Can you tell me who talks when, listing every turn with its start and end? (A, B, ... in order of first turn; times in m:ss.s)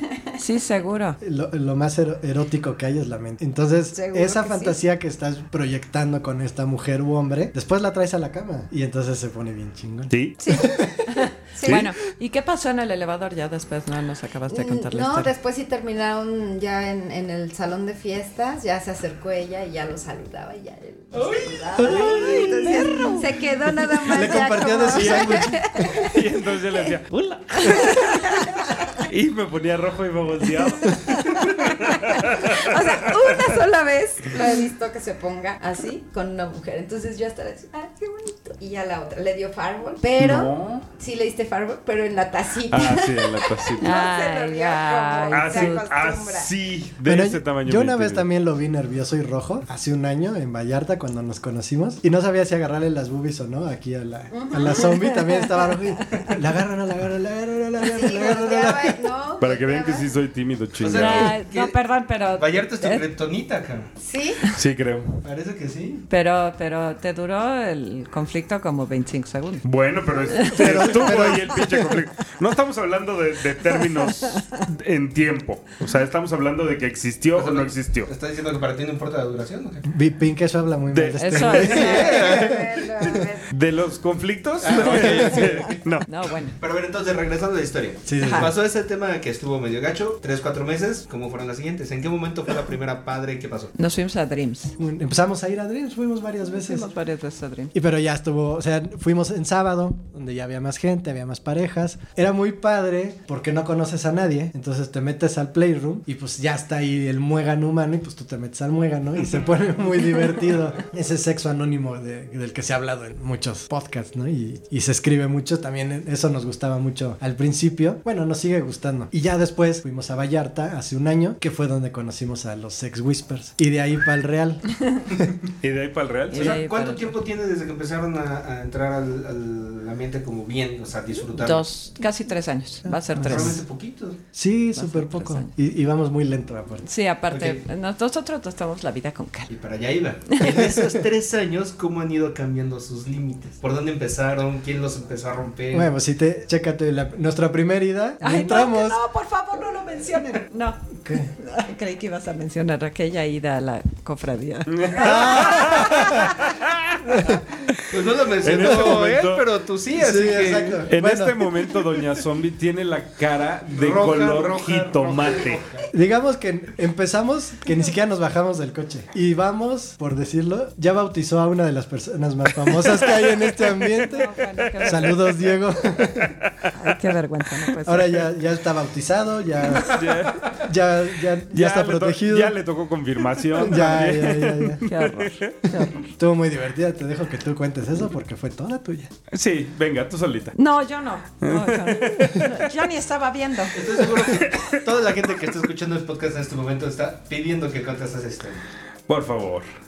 0:00.4-0:01.2 A
0:01.2-0:11.0 B
0:03.9-0:04.8 C
0:10.1-0:10.4 D
0:10.4-0:10.8 C
0:11.1-0:15.3 A
0:11.4-0:11.8 C
0:11.6-0:11.9 D
0:14.5-0:26.9 C
0:21.1-0:21.8 E
0:21.8-0:23.1 B
0:21.9-0:23.0 D
0:21.9-0:23.3 A
0:24.0-0:26.1 B
0:24.9-0:33.5 D
0:27.6-0:29.0 C
0:30.9-0:46.5 C
0:40.2-0:40.8 D
0:42.7-0:44.0 D
0:43.8-0:45.9 A
0:45.3-0:48.2 D
0:47.0-0:59.0 B
0:54.3-0:55.1 C
0:57.8-1:00.2 C
0:59.4-1:01.4 D
1:00.8-1:01.8 E
1:00.9-1:03.0 A
1:02.3-1:03.9 E
1:04.0-1:04.4 C
1:04.5-1:05.2 D
1:05.2-1:06.0 E
1:06.1-1:09.6 A
1:09.6-1:18.1 D
1:10.2-1:11.1 A
1:10.4-1:11.9 B
1:17.3-1:19.9 E
1:19.8-1:22.6 B
1:20.9-1:26.1 D
1:21.2-1:22.2 A
1:21.5-1:23.5 C
1:21.8-1:22.6 E
1:24.6-1:25.8 E
1:26.1-1:26.6 A
1:26.6-1:33.7 E
1:28.0-1:28.5 B
1:28.2-1:28.5 A
1:33.8-1:34.7 A
1:34.8-1:36.9 B
1:36.5-1:37.7 A
1:37.7-2:05.3 B
2:05.6-2:06.6 D
2:06.3-2:07.1 A
2:06.3-2:11.6 E
2:11.3-2:13.6 A
2:12.8-2:13.6 B
2:13.2-2:14.2 E
2:14.3-2:16.8 B
2:14.7-2:15.5 A
2:16.8-2:19.5 A
2:17.3-2:17.6 E
2:19.5-2:25.9 E
2:20.3-2:20.6 A
2:20.6-2:20.9 B
2:25.7-2:29.0 B
2:28.2-2:36.3 A
2:31.0-2:31.3 B
2:34.7-2:39.4 D
2:34.9-2:36.4 B
2:37.1-2:37.4 B
2:37.9-2:40.9 E
2:39.9-2:41.5 B
2:40.9-2:45.6 D
2:43.7-2:45.8 E
2:45.9-2:54.3 B
2:52.8-2:54.1 D
2:54.0-2:55.2 A
2:54.7-2:55.6 D
2:54.8-2:56.4 B
2:56.2-2:56.7 D
2:56.7-2:58.3 A
2:57.8-3:02.6 B
2:59.8-3:00.6 D
3:01.5-3:05.6 D
3:03.5-3:04.8 B
3:04.8-3:06.1 A
3:06.0-3:09.1 B
3:09.3-3:10.6 D
3:10.6-3:14.1 A
3:11.4-3:12.7 D
3:13.7-3:18.6 E
3:14.4-3:14.8 D
3:19.1-3:19.7 D